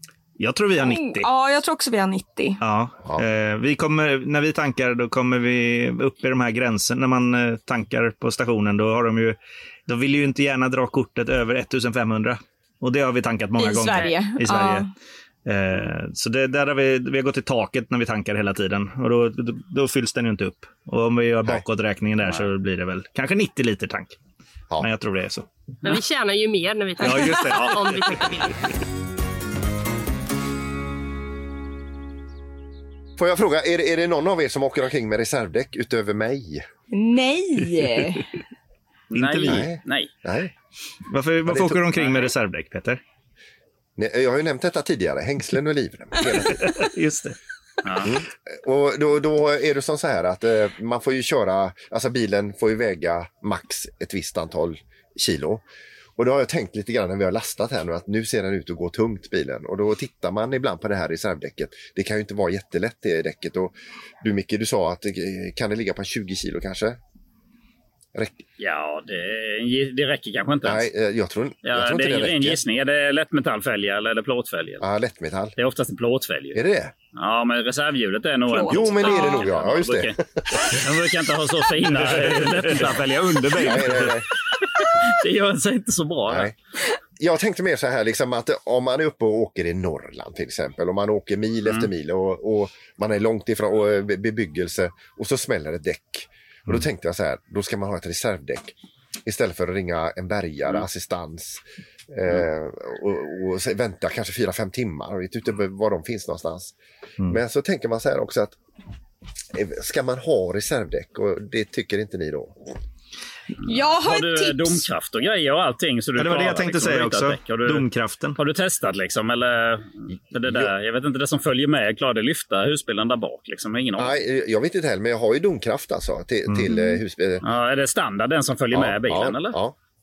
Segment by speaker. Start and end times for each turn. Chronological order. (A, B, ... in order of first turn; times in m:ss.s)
0:00.4-0:01.3 A
0:00.8-0:02.6 B
0:02.6-0:14.9 A
0:13.6-0:14.9 B
0:15.4-0:24.2 A
0:24.8-0:25.4 A
0:25.8-0:28.6 C
0:27.0-0:28.0 A
0:27.1-0:27.4 B
0:33.2-0:36.6 D
0:36.9-0:38.2 B
0:39.1-0:40.1 E
0:39.1-0:39.7 A
0:39.4-0:40.5 D
0:41.1-0:43.0 A
0:41.4-0:41.8 D
0:44.0-0:46.8 D
0:46.5-0:47.4 A
0:47.8-0:48.1 E
0:48.0-0:55.6 D
0:56.2-1:07.0 D
1:08.1-1:08.4 D
1:08.6-1:10.8 E
1:10.6-1:12.6 D
1:11.6-1:14.8 E
1:14.8-1:15.6 D
1:15.6-1:16.6 E
1:16.5-1:16.9 D
1:17.1-1:26.5 E
1:18.5-1:19.4 B
1:18.7-1:20.8 D
1:22.1-1:22.6 A
1:23.6-1:24.3 D
1:26.3-1:26.5 D
1:27.2-1:38.7 D
1:39.2-1:46.7 D
1:47.3-1:48.6 D
1:49.5-1:52.7 D
1:53.6-1:54.8 B
1:53.6-2:04.2 E
1:56.2-1:58.4 A
2:04.0-2:07.4 D
2:06.7-2:07.0 B
2:07.4-2:09.6 E
2:08.7-2:09.7 D